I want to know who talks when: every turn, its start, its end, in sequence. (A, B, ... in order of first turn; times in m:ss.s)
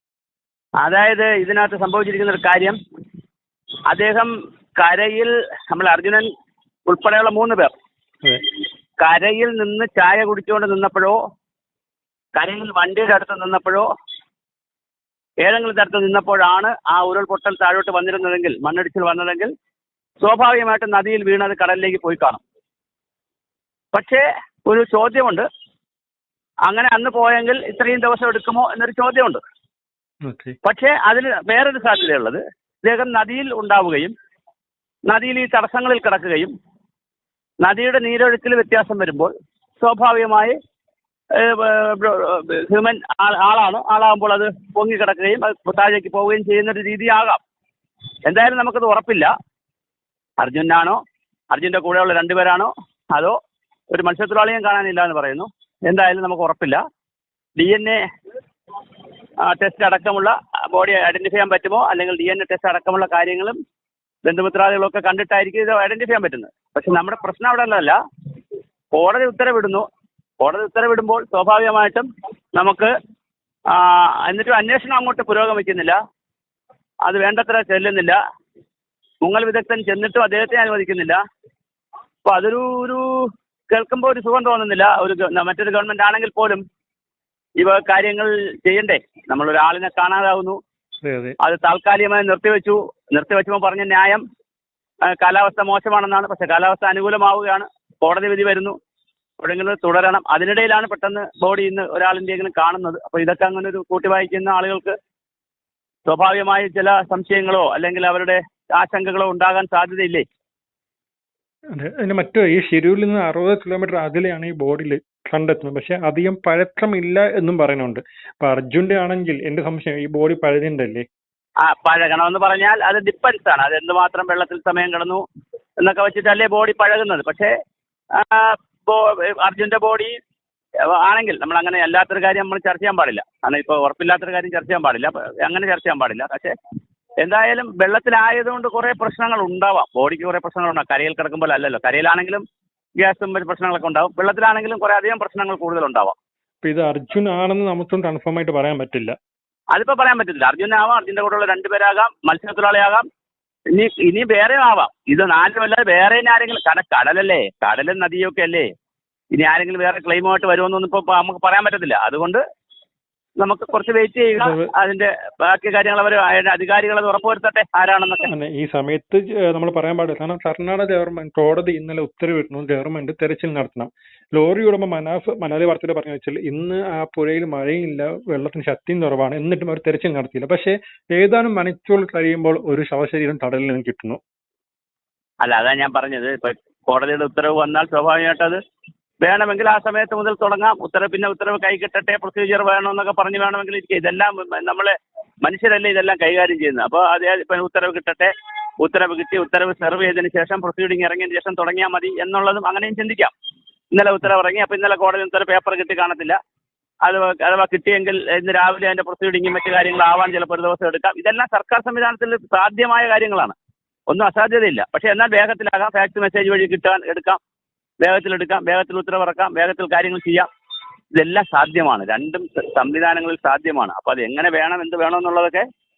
0:00.8-0:02.8 A
0:03.9-0:06.3 A
0:06.9-0:07.7 A
0:09.0-0:11.2 A
0:12.4-0:13.9 A
0:15.4-0:19.5 A
0:20.2-0:22.4 A
0:23.9-0:25.5 A
0:26.7-0:29.4 A
0:30.2-0:30.6 B
0:30.6-0:34.1 A
0:35.1-0:36.5 A
0:37.6-0:40.6 A
0:41.3-0:47.4 A
0:48.2-0:49.3 A
0:50.4-0:51.0 A
0:51.5-0:53.4 A
0:53.9-0:56.8 A
0:57.6-0:58.0 A
0:59.4-1:03.6 A
1:04.2-1:08.0 A
1:09.0-1:09.9 A
1:10.4-1:12.9 A
1:13.7-1:16.0 A
1:17.0-1:18.2 A
1:19.2-1:21.2 A
1:22.2-1:26.6 A
1:27.6-1:30.6 A
1:31.0-1:31.4 B
1:31.4-1:34.2 A
1:35.1-1:38.8 A
1:39.4-1:45.0 A
1:46.1-1:50.2 A
1:51.7-2:01.1 B
2:01.6-2:05.2 A
2:05.8-2:07.5 A
2:08.1-2:10.2 A
2:10.8-2:16.6 A
2:17.2-2:22.4 A
2:23.0-2:26.2 A
2:26.6-2:29.2 B
2:29.7-2:33.1 A
2:33.7-2:38.7 A
2:39.4-2:42.4 A
2:43.4-2:48.3 A
2:44.4-2:44.7 B
2:48.2-3:04.2 B
3:05.4-3:08.6 A
3:09.2-3:23.3 A
3:23.9-3:26.4 A
3:27.0-3:33.6 A
3:34.1-3:37.4 A
3:38.0-3:40.5 A
3:41.2-3:45.7 A